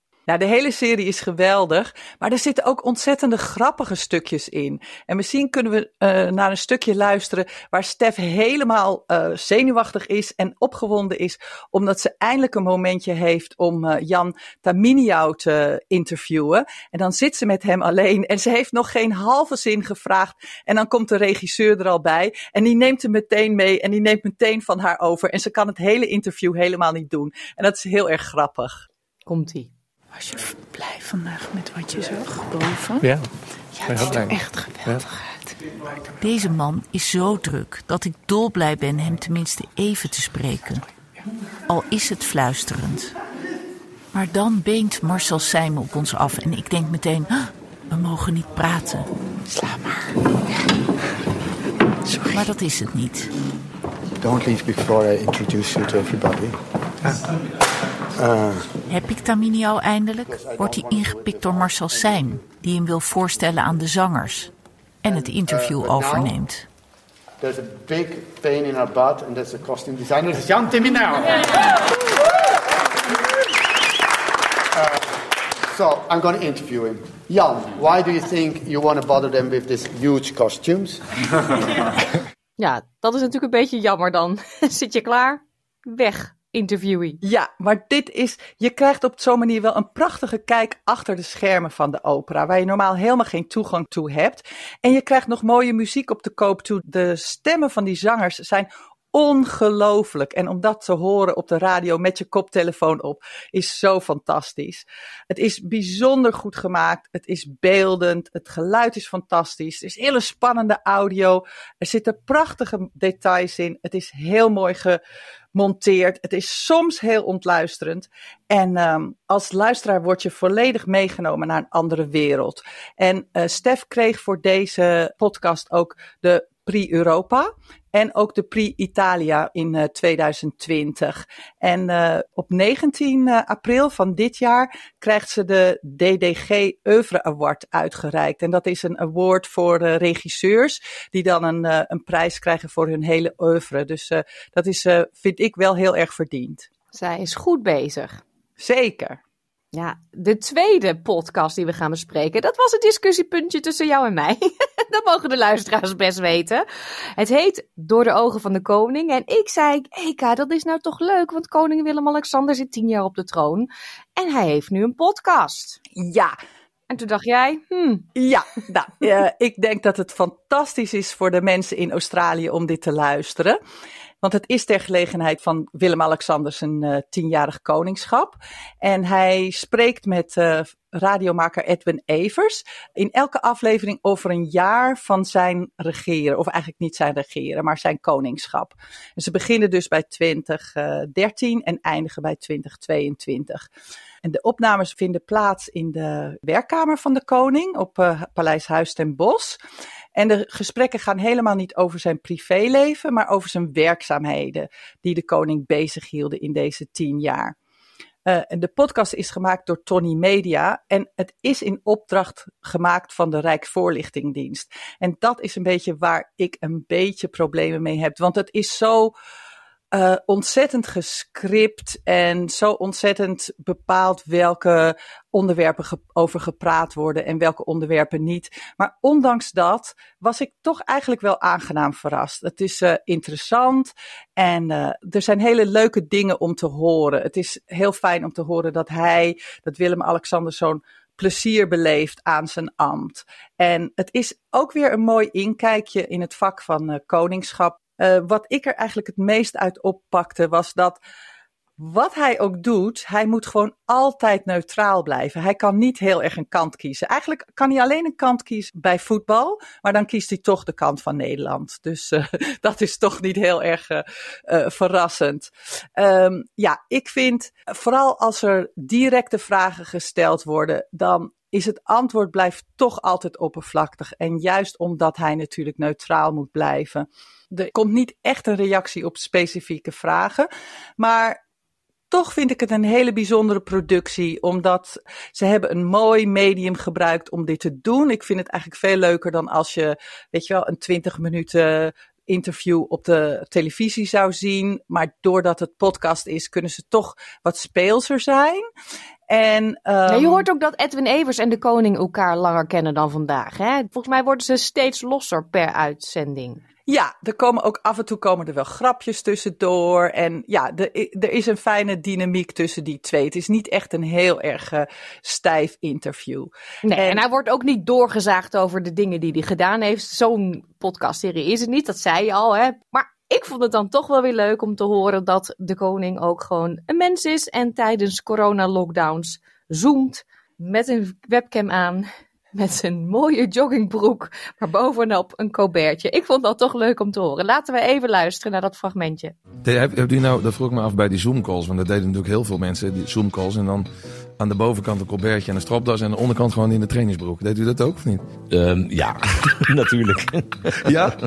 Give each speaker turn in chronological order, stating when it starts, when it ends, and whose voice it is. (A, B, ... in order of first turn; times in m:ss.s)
0:00.3-0:28.8 A
0:29.3-0:29.7 B
0:30.2-0:33.1 C
0:33.8-0:35.1 C
0:34.0-0:34.4 D
0:36.2-0:40.8 E
0:41.7-0:43.1 E
0:44.1-0:49.1 E
0:49.5-0:50.1 C
0:52.0-0:52.4 C
0:52.3-0:53.3 E
0:54.2-0:57.2 F
0:58.2-0:58.7 F
0:58.9-1:04.5 E
1:00.3-1:02.5 F
1:05.0-1:06.7 E
1:05.0-1:06.3 F
1:07.4-1:11.1 F
1:14.8-1:15.0 F
1:15.7-1:21.0 F
1:22.6-1:27.2 B
1:27.2-1:55.0 A
1:55.5-2:26.7 A
2:26.9-2:28.2 B
2:28.6-2:29.2 A
2:29.7-2:36.6 B
2:37.2-2:45.8 B
2:46.0-2:46.4 A
2:46.9-2:48.1 B
2:48.2-2:53.6 A
2:54.2-3:13.7 A
3:14.2-3:19.6 A
3:20.2-3:27.6 A
3:28.3-3:39.1 A
3:39.9-4:11.0 A
4:11.8-4:41.4 A
4:42.1-4:58.7 A
4:59.3-5:00.5 A
5:00.1-5:06.6 B
5:06.9-5:17.2 A
5:16.8-5:39.3 B
5:39.6-5:48.4 D
5:48.4-5:51.2 G
5:50.9-5:51.2 D